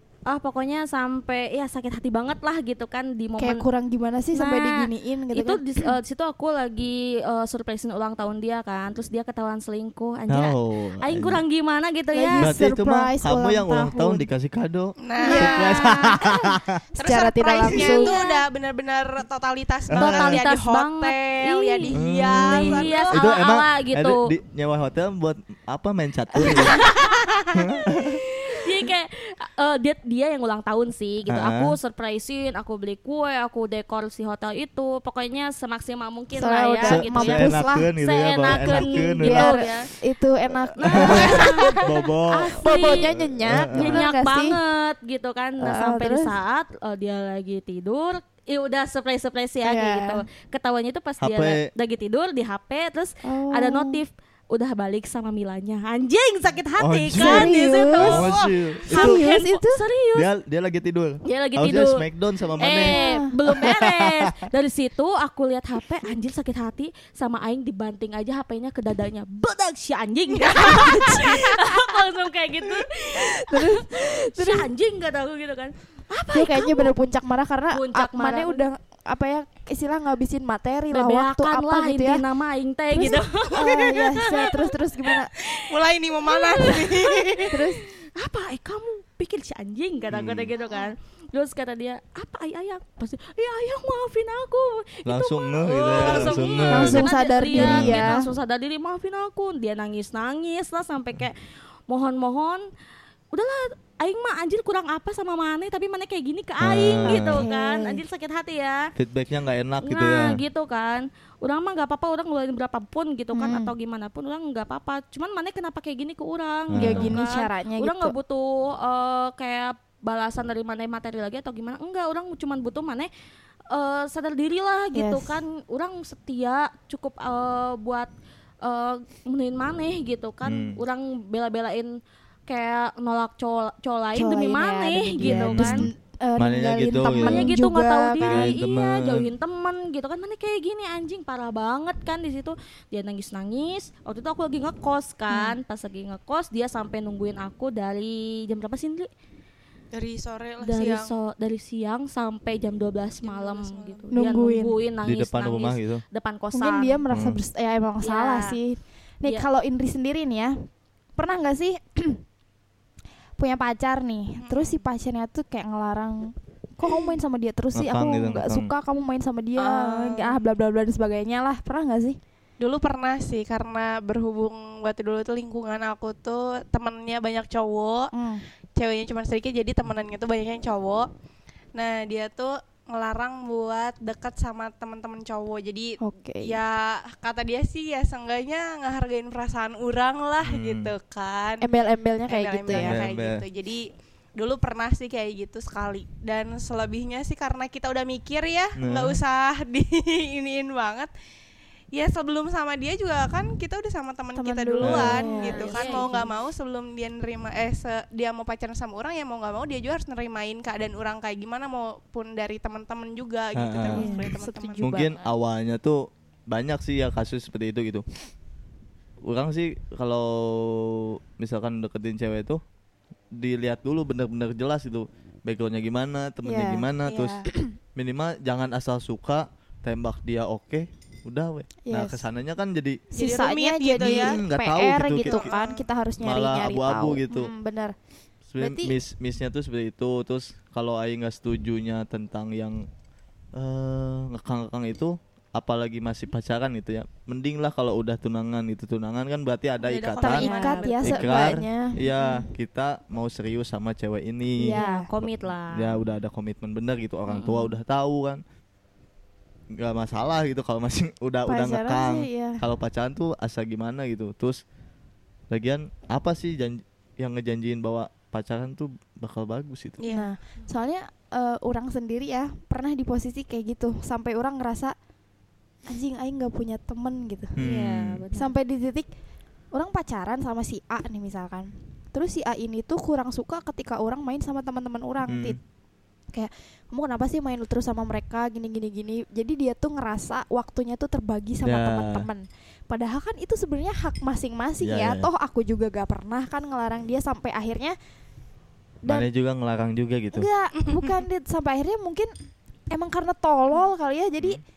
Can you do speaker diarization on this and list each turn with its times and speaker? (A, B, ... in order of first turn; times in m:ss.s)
0:00.3-0:03.6 A
0:03.4-0:05.9 B
0:04.3-0:12.5 A
0:10.3-0:11.4 C
0:12.1-0:14.3 B
0:12.4-0:16.8 C
0:15.0-0:16.1 D
0:15.2-0:16.2 B
0:17.0-0:18.2 B
0:17.0-0:23.1 D
0:17.7-0:18.3 A
0:19.9-0:20.4 C
0:20.0-0:24.3 A
0:21.9-0:26.8 C
0:26.4-0:26.8 B
0:26.4-0:27.2 A
0:27.6-0:28.2 C
0:28.4-0:39.9 A
0:31.3-0:31.8 C
0:36.4-0:37.9 B
0:36.9-0:39.6 C
0:38.6-0:41.8 B
0:40.8-0:43.1 A
0:40.8-0:44.0 C
0:42.6-0:44.6 B
0:43.7-1:00.3 A
0:45.6-0:46.3 B
0:49.6-0:50.2 B
0:51.2-0:51.7 C
0:53.2-0:54.0 B
0:56.8-0:59.2 C
0:57.1-0:58.3 B
0:58.9-0:59.8 B
1:00.2-1:04.4 C
1:01.2-1:02.0 A
1:02.6-1:17.0 A
1:02.8-1:03.3 B
1:10.4-1:12.0 B
1:12.6-1:14.7 B
1:16.3-1:22.2 B
1:17.7-1:18.7 A
1:20.9-1:25.6 A
1:22.9-1:25.3 B
1:25.6-1:27.5 D
1:26.3-1:27.5 A
1:27.5-1:27.8 B
1:28.2-1:41.4 A
1:30.1-1:30.5 C
1:35.0-1:38.1 C
1:36.7-1:38.3 B
1:41.9-1:42.6 A
1:43.3-1:48.9 A
1:46.6-1:47.4 C
1:47.0-1:48.0 B
1:49.0-1:50.4 C
1:49.8-2:03.1 A
1:53.3-1:53.7 B
1:56.7-1:57.2 C
1:56.8-1:58.1 B
2:03.7-2:08.1 A
2:04.9-2:05.3 B
2:08.6-2:11.9 A
2:10.5-2:10.8 C
2:12.5-2:15.9 A
2:14.2-2:18.5 B
2:15.2-2:17.5 C
2:17.2-2:29.1 A
2:18.2-2:19.3 C
2:25.3-2:25.6 B
2:29.9-2:31.1 D
2:30.6-2:37.0 A
2:33.2-2:34.1 D
2:34.1-2:34.8 B
2:35.0-2:36.0 C
2:36.5-2:40.6 B
2:37.1-2:37.4 C
2:38.0-2:38.6 A
2:41.2-2:42.2 B
2:43.4-2:52.2 B
2:44.4-2:44.9 D
2:46.8-2:47.2 D
2:47.8-2:48.7 C
2:49.6-2:50.5 D
2:52.6-2:58.1 D
2:58.1-2:58.4 B
2:58.8-3:01.1 D
3:01.8-3:11.7 D
3:06.0-3:06.6 B
3:10.4-3:10.9 C
3:11.6-3:13.0 B
3:12.3-3:21.1 D
3:12.7-3:13.4 C
3:18.8-3:19.2 C
3:21.9-3:35.0 D
3:24.4-3:26.3 B
3:24.8-3:25.2 C
3:25.1-3:26.3 A
3:33.6-3:34.1 C
3:33.9-3:35.1 B
3:34.0-3:34.3 A
3:34.8-3:38.0 C
3:39.2-3:42.6 C
3:43.4-3:53.0 C
3:46.4-3:46.9 B
3:47.0-3:47.5 D
3:51.9-3:52.3 B
3:53.1-3:58.0 B
3:53.2-3:54.4 D
3:54.0-3:55.5 C
3:55.3-3:55.8 D
3:56.2-3:57.5 C
3:58.5-4:02.9 C
3:58.6-3:58.9 B
4:03.6-4:10.4 C
4:09.8-4:11.3 D
4:10.2-4:11.3 A
4:10.2-4:12.5 B
4:11.1-4:18.4 C
4:14.6-4:15.1 B
4:14.8-4:16.0 A
4:17.3-4:17.8 A
4:19.8-4:24.6 C
4:21.5-4:22.6 B
4:25.5-4:30.0 C
4:30.0-4:30.3 D
4:30.1-4:35.0 B
4:35.9-4:37.6 B
4:37.6-4:38.2 C
4:37.6-4:38.5 A
4:38.3-4:39.1 B
4:39.7-4:45.6 B
4:45.3-4:45.6 C
4:46.3-4:58.0 B
4:51.6-4:52.3 C
4:54.8-4:55.3 C
4:59.1-5:00.5 C
5:00.3-5:02.3 B
5:00.8-5:01.2 D
5:02.9-5:04.6 B